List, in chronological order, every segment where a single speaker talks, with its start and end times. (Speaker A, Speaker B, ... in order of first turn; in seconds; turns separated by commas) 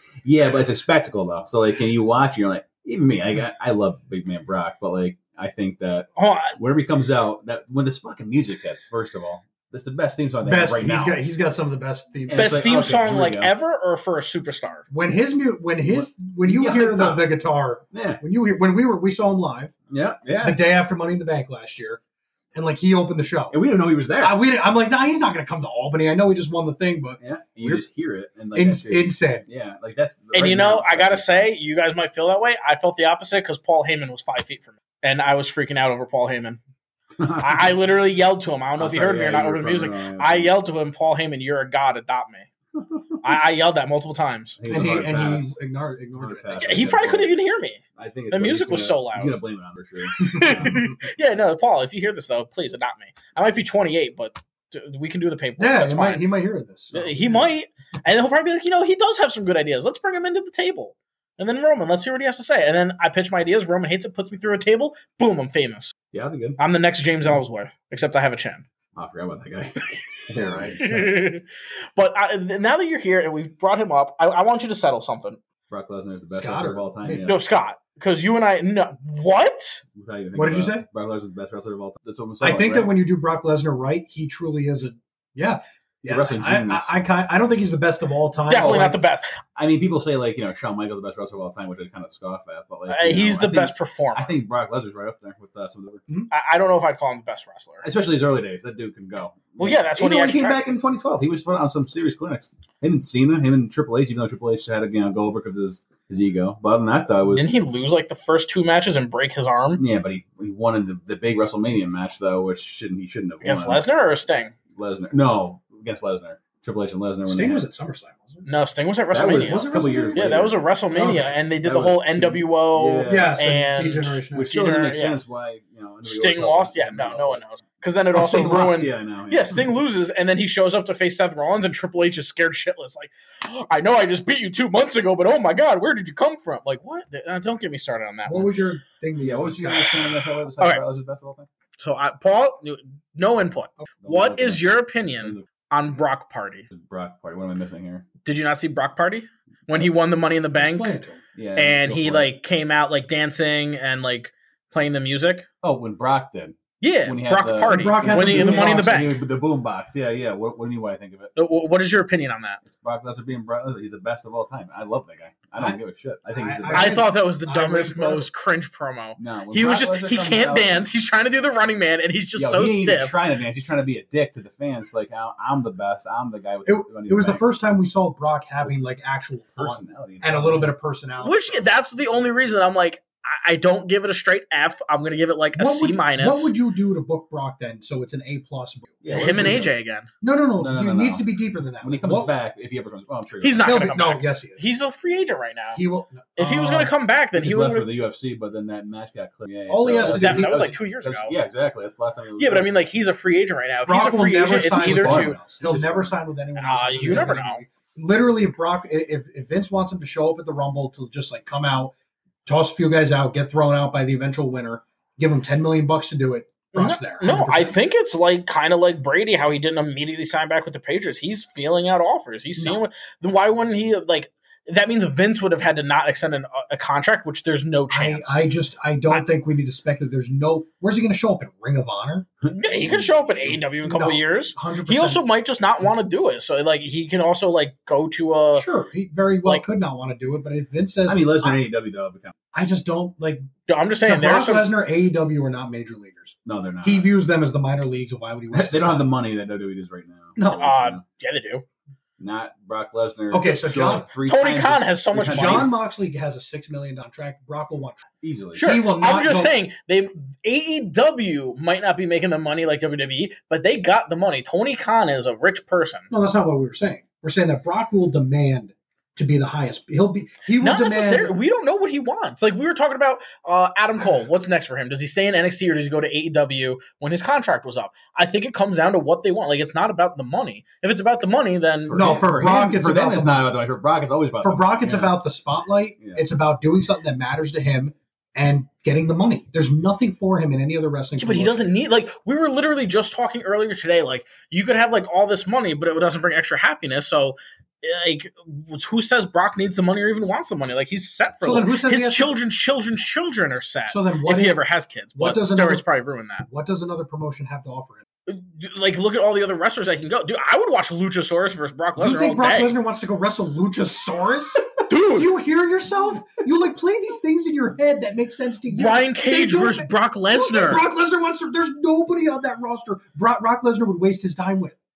Speaker A: 0.2-11.2, Speaker B: 6.2-6.5, Speaker C: 10.4-12.6, Speaker A: 12.3-13.5, Speaker B: 12.3-14.8, Speaker C: 14.9-19.7, Speaker A: 15.8-17.3, Speaker A: 17.9-18.2, Speaker A: 19.9-20.6, Speaker C: 20.4-22.0, Speaker C: 22.5-23.6, Speaker A: 23.5-24.4, Speaker C: 24.2-27.8, Speaker A: 27.2-31.5, Speaker C: 28.5-29.4, Speaker B: 30.3-36.6, Speaker A: 37.2-37.7, Speaker B: 37.3-42.5, Speaker A: 38.8-40.6, Speaker A: 42.7-43.2, Speaker B: 43.2-44.6, Speaker A: 44.6-45.6, Speaker C: 44.7-47.1, Speaker A: 46.2-47.3, Speaker B: 46.6-49.4, Speaker A: 48.0-51.0, Speaker B: 50.2-56.2, Speaker C: 50.2-50.9, Speaker C: 55.6-57.4, Speaker B: 56.9-65.9, Speaker A: 66.1-66.6, Speaker B: 66.6-68.6, Speaker A: 68.9-71.0, Speaker C: 70.3-71.0, Speaker B: 70.4-71.4, Speaker B: 72.0-75.4, Speaker A: 75.7-77.4, Speaker C: 76.3-77.2, Speaker B: 77.1-79.8, Speaker A: 79.9-82.9, Speaker C: 80.3-80.8, Speaker C: 82.4-89.0, Speaker A: 86.0-87.0, Speaker B: 88.5-89.4, Speaker A: 89.5-96.0, Speaker B: 92.9-94.3, Speaker B: 96.3-97.8, Speaker A: 97.8-107.5, Speaker B: 99.6-100.6, Speaker B: 107.3-109.8, Speaker A: 109.8-113.8, Speaker B: 113.4-114.5, Speaker A: 114.7-117.6, Speaker C: 117.3-118.4, Speaker B: 118.4-125.2, Speaker A: 119.1-123.4, Speaker C: 119.2-121.3, Speaker C: 123.1-124.6, Speaker A: 124.3-127.4, Speaker B: 126.0-138.6, Speaker A: 128.1-129.7, Speaker C: 138.3-140.1, Speaker A: 139.2-141.5, Speaker B: 141.8-146.7, Speaker A: 144.0-144.7, Speaker A: 145.2-145.4, Speaker A: 146.7-148.1, Speaker B: 148.2-151.0, Speaker C: 150.5-151.2, Speaker A: 151.3-152.3, Speaker B: 151.6-155.5, Speaker A: 155.6-161.3, Speaker B: 156.8-159.2, Speaker C: 157.6-159.0, Speaker B: 161.3-162.6, Speaker A: 162.6-167.0, Speaker C: 166.3-168.3, Speaker B: 166.7-173.1, Speaker A: 169.2-170.8, Speaker A: 172.3-177.4, Speaker C: 176.7-181.7, Speaker A: 179.6-180.7, Speaker B: 181.2-186.5, Speaker C: 185.5-189.7, Speaker A: 189.0-189.7, Speaker B: 189.1-190.1, Speaker C: 190.2-192.3, Speaker A: 190.6-191.2, Speaker A: 191.8-193.9, Speaker B: 193.4-195.8, Speaker C: 193.6-194.7, Speaker C: 195.7-196.9, Speaker B: 196.4-197.9, Speaker A: 197.3-202.7, Speaker C: 199.7-200.7, Speaker B: 200.0-201.3, Speaker B: 202.4-205.4, Speaker C: 203.8-211.9, Speaker A: 204.7-206.2, Speaker B: 206.6-207.6, Speaker C: 212.4-217.8, Speaker B: 216.7-228.4, Speaker C: 227.9-232.2, Speaker A: 232.4-233.6, Speaker B: 232.5-238.7, Speaker C: 233.8-235.2, Speaker C: 238.5-241.6, Speaker A: 241.1-242.3, Speaker C: 242.5-243.4, Speaker B: 243.7-244.7, Speaker C: 244.0-249.1, Speaker A: 246.4-247.1, Speaker A: 248.5-251.0, Speaker C: 250.4-250.7, Speaker B: 250.6-251.6, Speaker A: 252.2-255.7, Speaker C: 253.3-254.1, Speaker B: 254.2-255.7, Speaker C: 255.2-258.1, Speaker A: 258.2-258.7, Speaker B: 258.6-266.1, Speaker C: 258.6-259.5, Speaker C: 266.1-271.3, Speaker B: 270.6-282.0, Speaker A: 281.8-285.2, Speaker C: 281.9-283.6, Speaker C: 284.4-291.7, Speaker A: 286.0-286.2, Speaker B: 291.2-306.4, Speaker C: 301.4-302.3, Speaker C: 303.9-304.6, Speaker C: 305.1-305.8, Speaker C: 306.5-308.0, Speaker B: 308.3-312.7, Speaker C: 312.0-324.8, Speaker B: 314.9-315.3, Speaker B: 318.7-320.8